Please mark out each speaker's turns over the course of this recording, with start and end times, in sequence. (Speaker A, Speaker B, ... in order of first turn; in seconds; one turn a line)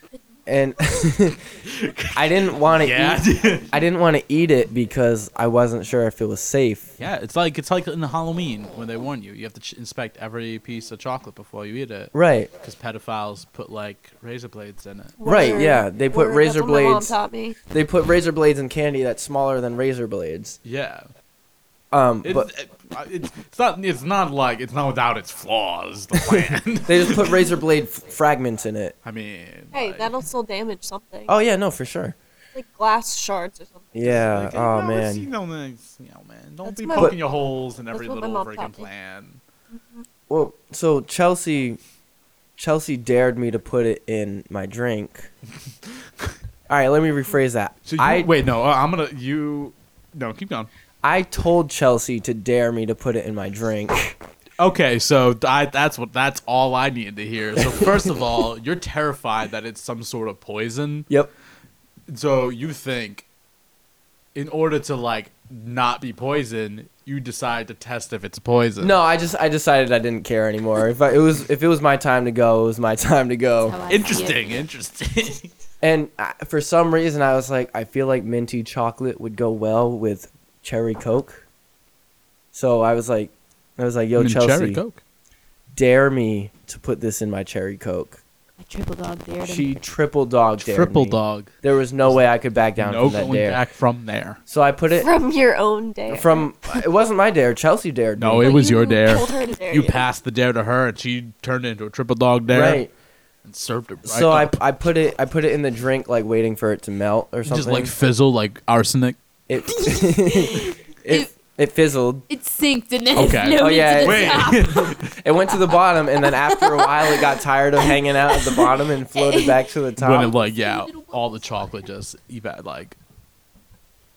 Speaker A: 0.5-1.4
Speaker B: 1.6-3.7
Speaker A: 2.1-6.9
Speaker B: 7.0-15.2
Speaker A: 12.1-12.5
Speaker C: 15.2-17.6
Speaker A: 15.2-17.2
Speaker A: 17.7-20.6
Speaker B: 20.6-21.1
Speaker A: 21.9-22.5
Speaker B: 22.2-27.4
Speaker A: 26.2-28.9
Speaker B: 29.0-30.1
Speaker C: 29.7-31.3
Speaker A: 31.3-32.1
Speaker C: 32.5-34.1
Speaker A: 33.9-35.3
Speaker B: 34.0-39.4
Speaker C: 36.6-37.2
Speaker A: 36.9-37.2
Speaker C: 37.9-38.9
Speaker C: 39.7-40.0
Speaker A: 40.3-41.8
Speaker A: 42.6-45.3
Speaker A: 46.7-48.3
Speaker B: 47.9-50.7
Speaker A: 51.0-54.2
Speaker B: 54.6-61.1
Speaker A: 57.6-57.9
Speaker B: 62.1-63.2
Speaker B: 64.3-69.0
Speaker A: 68.8-73.8
Speaker D: 73.6-74.5
Speaker B: 73.9-75.5
Speaker A: 75.8-81.4
Speaker A: 82.5-84.8
Speaker B: 84.2-85.0
Speaker A: 85.7-88.2
Speaker D: 88.6-89.7
Speaker A: 89.4-93.6
Speaker B: 90.6-91.5
Speaker B: 92.8-94.4
Speaker A: 94.5-95.1
Speaker C: 94.9-96.5
Speaker A: 96.1-98.6
Speaker B: 98.2-102.8
Speaker C: 98.4-100.0
Speaker A: 102.5-102.9
Speaker B: 103.4-104.6
Speaker A: 104.0-107.9
Speaker B: 107.5-109.2
Speaker A: 109.5-112.3
Speaker D: 109.8-111.3
Speaker D: 112.3-114.9
Speaker B: 113.1-115.1
Speaker A: 113.5-120.3
Speaker D: 116.7-117.3
Speaker D: 118.3-118.7
Speaker B: 120.0-123.0
Speaker D: 120.4-121.1